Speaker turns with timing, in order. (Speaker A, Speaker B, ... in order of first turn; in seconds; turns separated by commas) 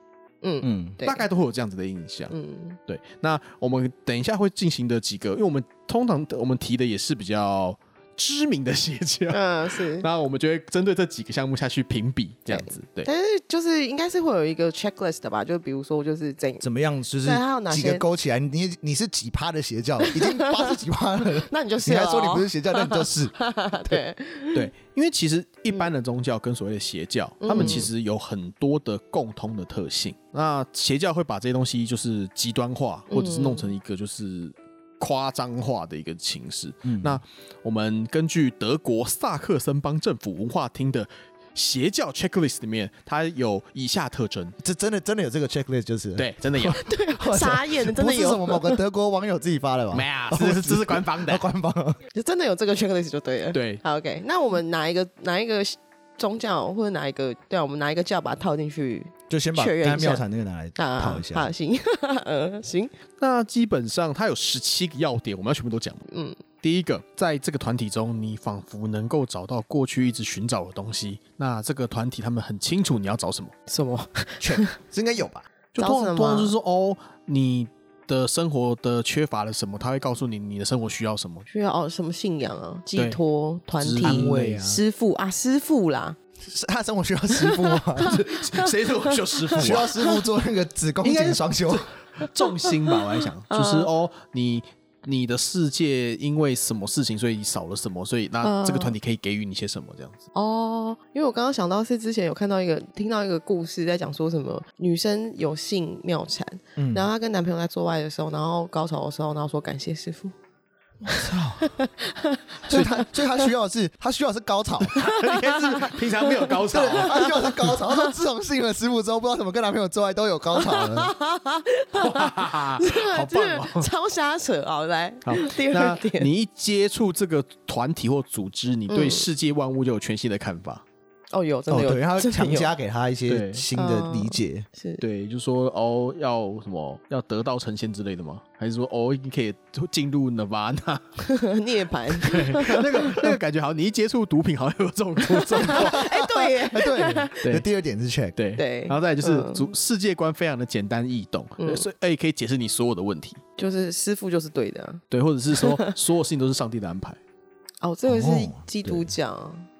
Speaker A: 0.4-1.2, Speaker B: 0.6-1.0, Speaker C: 1.0-2.3, Speaker A: 2.3-2.8, Speaker C: 2.9-13.1, Speaker A: 9.3-10.1, Speaker A: 12.5-16.6, Speaker B: 16.6-24.0, Speaker A: 17.2-18.0, Speaker A: 20.0-20.8, Speaker A: 21.4-24.7, Speaker C: 24.5-44.5, Speaker A: 27.4-27.9, Speaker B: 27.6-27.9, Speaker A: 33.1-33.7, Speaker B: 36.8-37.2, Speaker B: 44.6-52.0, Speaker C: 46.2-46.8, Speaker A: 46.7-48.8, Speaker C: 49.9-51.5, Speaker A: 52.1-60.2, Speaker C: 53.5-53.8, Speaker B: 59.3-61.5, Speaker A: 60.8-62.9, Speaker C: 63.2-66.0, Speaker A: 66.1-66.4, Speaker C: 66.6-73.5, Speaker A: 73.7-74.7, Speaker B: 74.4-75.5, Speaker C: 75.7-81.5, Speaker A: 75.8-76.5, Speaker A: 81.5-86.2, Speaker C: 83.8-84.7, Speaker B: 84.0-84.8, Speaker B: 86.4-88.2, Speaker A: 87.3-90.2, Speaker C: 88.0-89.9, Speaker B: 89.6-91.9, Speaker C: 91.0-100.2, Speaker A: 92.2-93.9, Speaker A: 98.4-98.9, Speaker A: 100.3-110.3, Speaker B: 106.8-107.1, Speaker B: 111.0-111.7, Speaker A: 111.1-113.5, Speaker B: 112.7-115.0, Speaker C: 114.8-117.6, Speaker A: 115.0-118.1, Speaker B: 116.7-121.1, Speaker A: 120.5-126.3, Speaker C: 121.9-123.9, Speaker C: 125.2-130.8, Speaker A: 128.9-129.3, Speaker A: 131.3-132.7, Speaker B: 131.7-134.7, Speaker C: 133.3-133.7, Speaker A: 133.7-135.0, Speaker C: 135.0-141.2, Speaker A: 141.2-143.3, Speaker C: 142.1-146.0, Speaker A: 145.3-147.4, Speaker B: 145.7-148.3, Speaker C: 148.3-153.4, Speaker A: 148.6-149.7, Speaker A: 151.6-151.9, Speaker A: 153.6-155.0, Speaker C: 155.1-157.2, Speaker A: 155.5-155.9, Speaker A: 157.8-159.7, Speaker B: 158.1-159.1